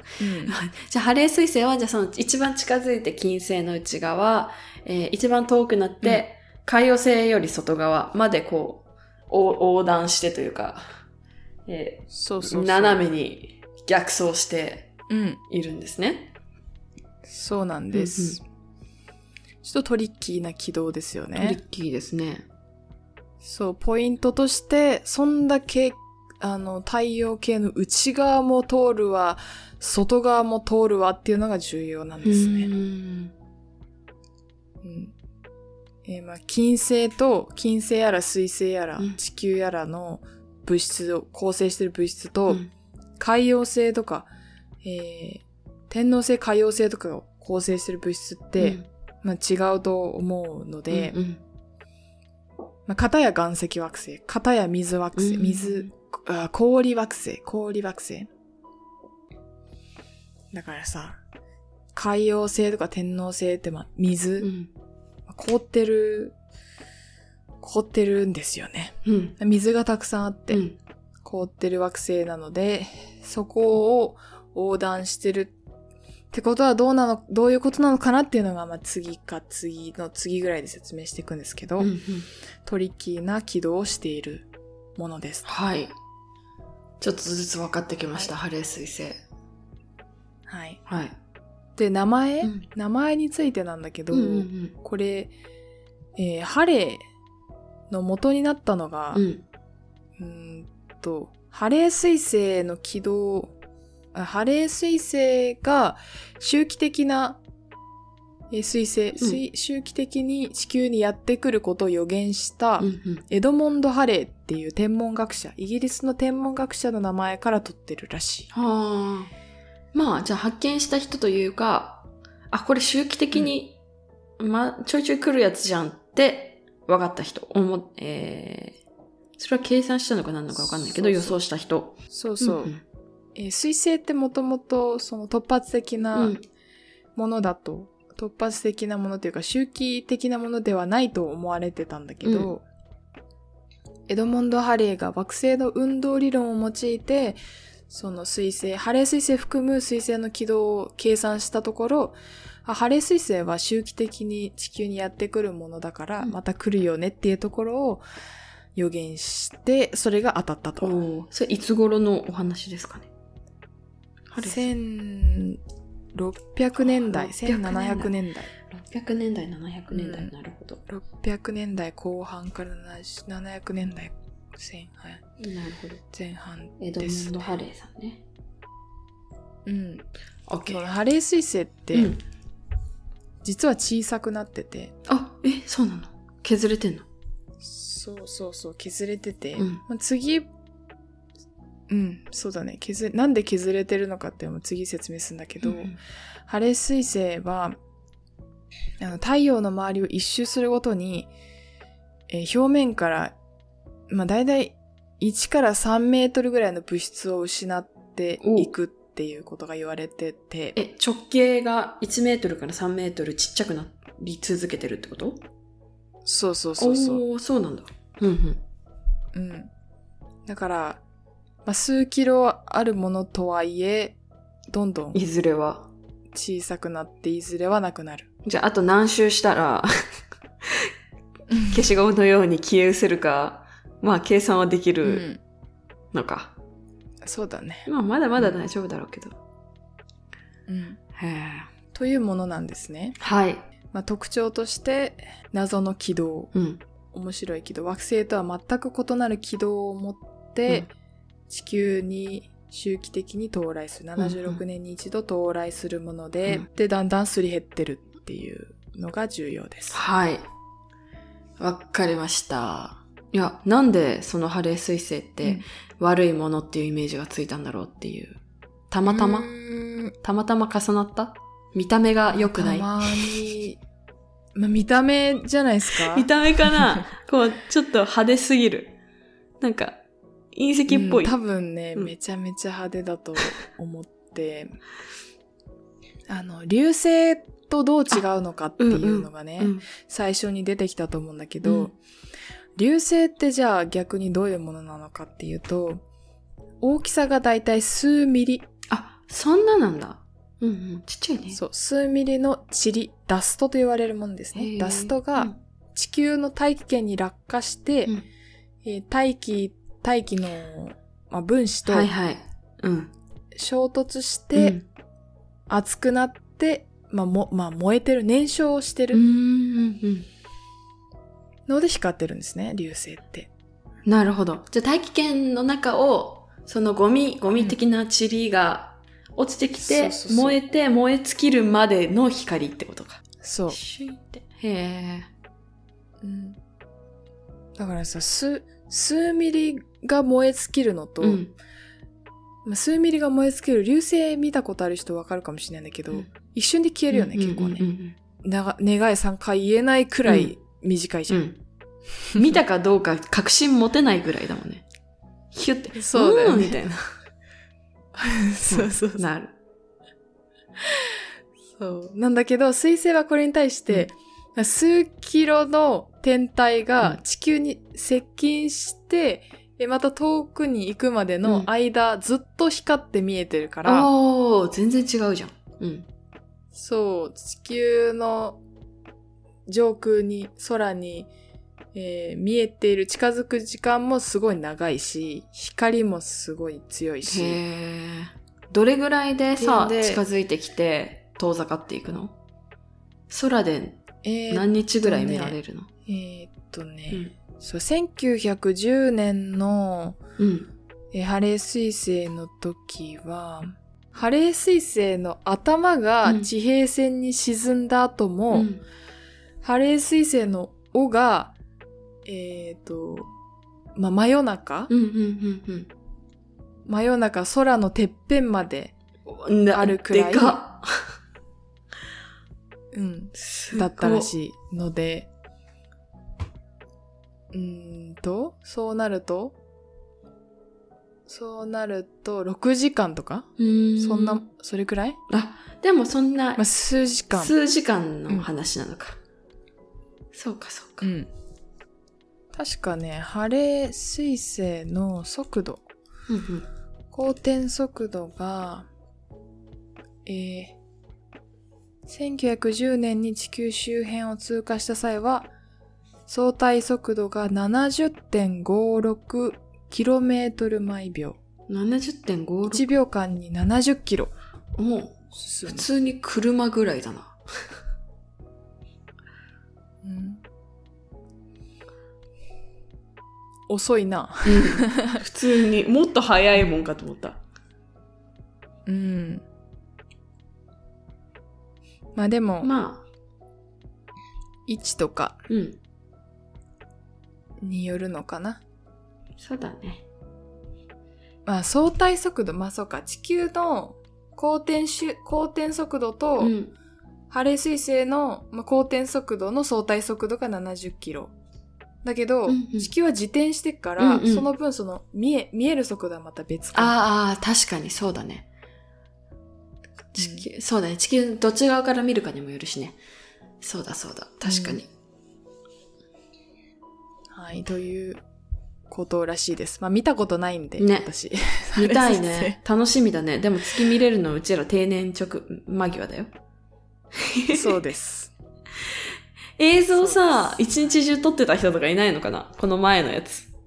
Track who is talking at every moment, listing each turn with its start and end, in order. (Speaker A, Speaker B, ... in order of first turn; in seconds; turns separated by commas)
Speaker A: 0.2-0.6, Speaker B: 0.4-10.8, Speaker B: 11.7-14.9, Speaker A: 12.1-13.0, Speaker A: 15.1-15.4, Speaker B: 15.5-16.3, Speaker A: 17.2-18.4, Speaker B: 17.9-18.4, Speaker A: 19.6-21.6, Speaker B: 21.3-22.4, Speaker A: 23.4-32.7, Speaker B: 32.2-33.3, Speaker A: 34.8-35.1, Speaker A: 36.0-42.6, Speaker A: 43.2-44.3, Speaker A: 44.8-51.1, Speaker B: 48.6-48.9, Speaker B: 50.9-51.4, Speaker A: 52.9-58.3, Speaker B: 55.1-55.9, Speaker A: 60.5-61.2, Speaker A: 61.9-64.5, Speaker B: 64.4-64.7, Speaker A: 65.3-66.3, Speaker A: 67.6-70.6, Speaker B: 69.0-69.4, Speaker B: 70.5-70.8, Speaker A: 71.2-75.5, Speaker A: 76.3-81.9, Speaker B: 81.8-82.3, Speaker A: 82.6-85.5, Speaker B: 85.4-85.9, Speaker B: 87.0-89.2, Speaker A: 90.5-90.8, Speaker B: 90.9-91.2, Speaker A: 91.8-95.3, Speaker B: 94.1-94.7, Speaker A: 96.2-97.0, Speaker A: 97.9-99.2, Speaker B: 99.1-99.4, Speaker A: 100.2-103.5, Speaker A: 104.1-107.4, Speaker A: 108.5-118.5, Speaker B: 112.8-113.2, Speaker B: 118.5-119.3, Speaker B: 119.9-123.8, Speaker B: 124.4-128.8, Speaker B: 129.4-132.8, Speaker A: 130.5-131.4, Speaker A: 132.1-132.7, Speaker A: 133.3-136.3, Speaker B: 136.1-136.4, Speaker A: 137.2-142.6, Speaker B: 142.2-142.5, Speaker A: 144.1-147.4, Speaker A: 147.9-158.0, Speaker A: 158.7-161.0, Speaker B: 160.8-163.1, Speaker B: 164.3-164.7, Speaker A: 164.4-165.6, Speaker A: 166.1-168.5, Speaker B: 166.8-168.1, Speaker B: 168.7-170.8, Speaker A: 169.9-170.3, Speaker A: 170.9-175.2, Speaker B: 175.4-176.0, Speaker A: 176.1-177.5, Speaker B: 176.8-178.2, Speaker A: 179.7-180.0, Speaker B: 180.5-180.8, Speaker A: 180.6-182.2, Speaker B: 181.9-182.2, Speaker A: 183.4-184.9, Speaker B: 185.1-187.1, Speaker A: 187.6-190.5, Speaker B: 189.6-189.8, Speaker A: 191.9-195.9, Speaker B: 195.6-196.0, Speaker A: 196.5-197.8, Speaker A: 199.0-201.3, Speaker A: 202.3-203.3, Speaker A: 204.1-210.8, Speaker B: 208.4-208.7, Speaker B: 210.7-215.4, Speaker A: 216.2-217.2, Speaker B: 216.8-218.6, Speaker A: 219.3-219.7, Speaker A: 220.5-221.0, Speaker A: 221.7-224.2, Speaker A: 224.7-225.2, Speaker B: 225.1-225.9, Speaker A: 226.3-228.3, Speaker B: 228.4-229.9, Speaker B: 230.6-230.9, Speaker A: 231.5-231.8, Speaker B: 231.7-235.2, Speaker A: 235.0-235.4, Speaker B: 236.1-236.5, Speaker A: 237.2-238.6, Speaker B: 237.9-239.3, Speaker A: 240.7-241.0, Speaker B: 241.1-241.7, Speaker A: 241.9-243.2, Speaker B: 243.2-243.6, Speaker A: 243.9-246.5, Speaker B: 246.5-246.8, Speaker A: 247.1-250.9, Speaker A: 251.5-260.0, Speaker B: 254.2-254.6, Speaker B: 259.9-260.5, Speaker B: 261.6-268.4, Speaker B: 268.9-269.5, Speaker A: 269.1-270.1, Speaker B: 270.2-272.9, Speaker A: 272.3-273.8, Speaker A: 274.6-276.3, Speaker B: 276.1-278.9, Speaker B: 279.6-280.0, Speaker B: 280.5-281.4, Speaker A: 280.9-284.7, Speaker A: 286.3-292.0, Speaker B: 288.8-289.9, Speaker B: 291.6-291.9, Speaker A: 292.8-296.0, Speaker A: 296.8-298.6, Speaker B: 298.9-301.6, Speaker A: 301.5-308.1, Speaker B: 304.5-305.5, Speaker A: 308.8-312.1, Speaker B: 311.9-313.1, Speaker A: 313.5-314.8, Speaker B: 314.5-314.9, Speaker A: 315.7-319.2, Speaker B: 319.1-320.3, Speaker A: 321.7-323.5, Speaker B: 324.1-335.3, Speaker A: 329.8-330.6, Speaker A: 333.4-333.8, Speaker A: 336.2-336.6, Speaker A: 337.8-341.4, Speaker B: 341.2-341.5, Speaker A: 342.6-347.9, Speaker B: 347.1-348.2, Speaker A: 348.4-351.5, Speaker B: 350.2-350.5, Speaker B: 351.3-351.6, Speaker B: 352.3-354.8, Speaker B: 355.5-357.0, Speaker A: 355.9-356.8, Speaker A: 358.1-359.2, Speaker B: 358.7-359.5, Speaker A: 361.8-374.1, Speaker B: 373.8-376.1, Speaker A: 376.7-378.6, Speaker A: 379.7-381.3, Speaker A: 381.9-387.6, Speaker B: 387.2-392.3, Speaker A: 389.6-390.2, Speaker B: 393.3-395.9, Speaker A: 394.2-400.2, Speaker B: 400.4-400.7, Speaker A: 401.1-408.7, Speaker B: 406.2-406.5, Speaker B: 408.5-408.8, Speaker A: 409.6-411.5, Speaker A: 412.2-413.3, Speaker A: 413.9-414.9, Speaker B: 414.9-415.9, Speaker A: 416.9-418.9, Speaker B: 419.2-421.1, Speaker A: 419.7-420.6, Speaker A: 422.9-425.3, Speaker B: 423.4-424.3, Speaker A: 427.5-429.6, Speaker A: 431.3-435.2, Speaker B: 433.6-434.4, Speaker B: 435.3-436.6, Speaker A: 436.6-437.5, Speaker B: 437.3-439.2, Speaker B: 440.3-441.1, Speaker A: 441.0-441.3, Speaker A: 442.5-445.8, Speaker B: 446.3-446.7, Speaker A: 447.1-448.9, Speaker A: 450.2-450.8, Speaker A: 452.1-455.5, Speaker A: 456.3-461.4, Speaker B: 461.7-462.9, Speaker A: 462.7-464.3, Speaker B: 464.8-467.4, Speaker A: 465.3-465.9, Speaker A: 470.0-470.4, Speaker A: 473.7-475.2, Speaker B: 474.4-477.4, Speaker A: 478.9-479.4, Speaker A: 482.1-482.7, Speaker B: 482.6-483.1, Speaker A: 484.7-485.4, Speaker B: 485.5-485.8, Speaker A: 487.6-488.6, Speaker B: 489.4-490.0, Speaker A: 491.4-496.5, Speaker B: 496.4-496.7, Speaker A: 497.3-501.3, Speaker A: 502.0-507.0, Speaker B: 502.5-502.9, Speaker B: 504.0-504.5, Speaker B: 506.7-508.5, Speaker B: 510.1-513.0, Speaker A: 510.2-510.4, Speaker B: 513.6-514.9, Speaker A: 514.4-514.8, Speaker A: 517.3-518.2, Speaker A: 518.9-522.6, Speaker B: 520.8-521.1, Speaker B: 521.7-526.3, Speaker B: 527.1-527.8, Speaker A: 527.5-528.3, Speaker B: 529.6-533.5, Speaker A: 529.9-530.6